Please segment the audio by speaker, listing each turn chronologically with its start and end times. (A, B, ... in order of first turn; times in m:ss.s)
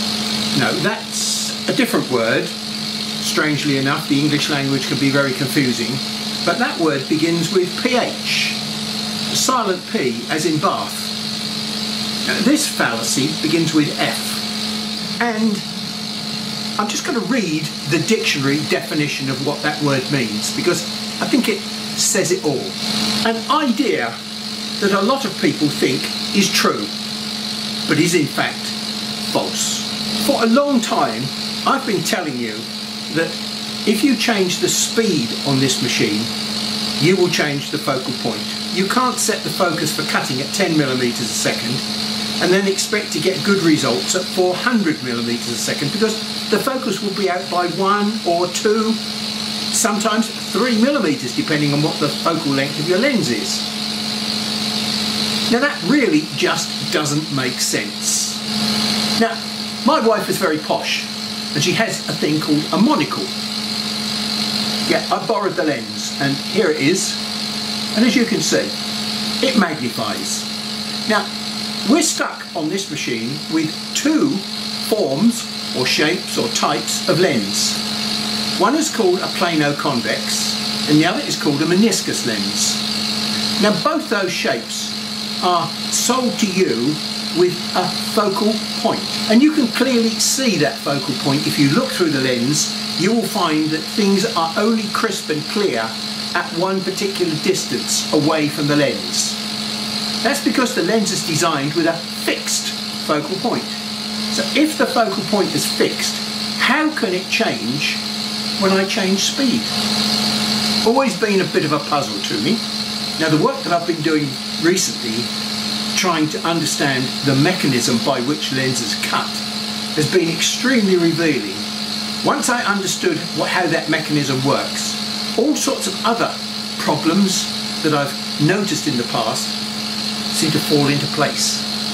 0:00.5-0:02.6 A
0:03.2-0:08.6 A
0:09.3-0:11.2 A
0:12.2-0:14.5 A
0:15.2-0:15.7 A
0:16.8-0:24.2 A
0:24.8-0:26.9 A
0:27.9-0:28.8 A
0:29.3-0:36.3 A
0:37.0-0:41.8 A
0:42.4-0:49.0 A
0:49.7-0:53.7 A
0:55.5-0:58.4 A
0:59.2-1:03.3 A
1:04.9-1:07.2 A
1:07.9-1:08.8 A
1:09.4-1:10.5 A
1:11.8-1:17.8 A
1:18.6-1:22.8 A
1:23.6-1:39.4 A
1:40.2-1:48.0 A
1:48.6-1:49.7 A
1:50.8-1:52.6 A
1:53.2-1:55.3 A
1:55.9-2:01.6 A
2:02.2-2:09.6 A
2:10.3-2:11.7 A